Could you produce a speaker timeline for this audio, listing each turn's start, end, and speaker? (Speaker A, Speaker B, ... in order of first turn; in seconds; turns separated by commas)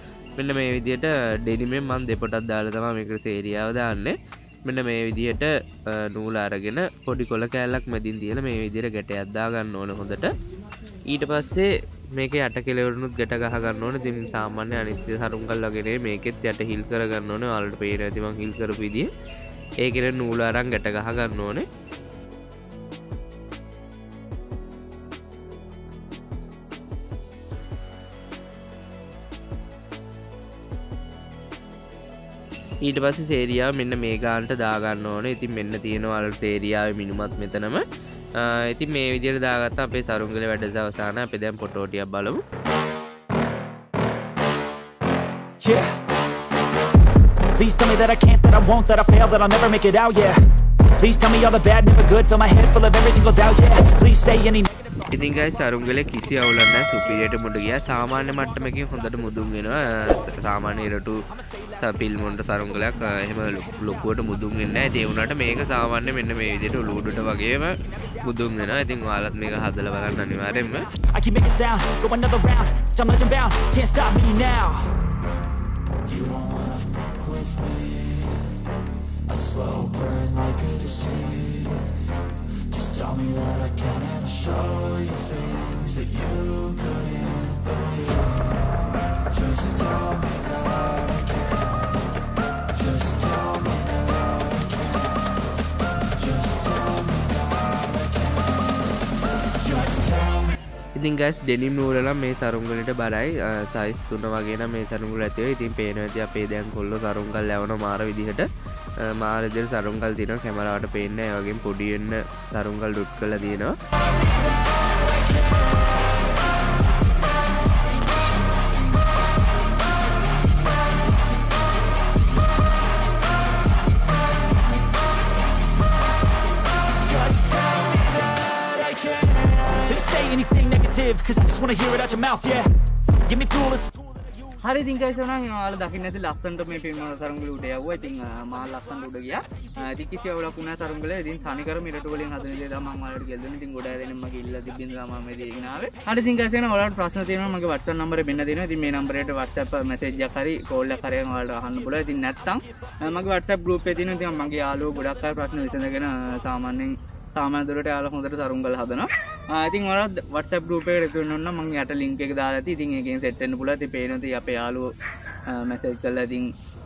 Speaker A: 0.4-10.3, Speaker A: 11.1-19.1, Speaker A: 19.8-21.6, Speaker A: 32.8-37.8, Speaker A: 38.4-42.4, Speaker B: 45.6-46.0, Speaker B: 47.5-50.4, Speaker B: 51.0-54.9, Speaker A: 55.1-70.9, Speaker B: 71.1-75.0, Speaker B: 76.0-78.5, Speaker B: 79.3-82.0, Speaker B: 82.7-88.5, Speaker B: 89.3-91.7, Speaker B: 92.8-95.0, Speaker B: 96.4-97.0, Speaker A: 101.0-108.5, Speaker A: 109.0-113.7, Speaker B: 127.1-132.7, Speaker B: 133.3-134.2, Speaker C: 134.6-164.9, Speaker C: 165.5-166.5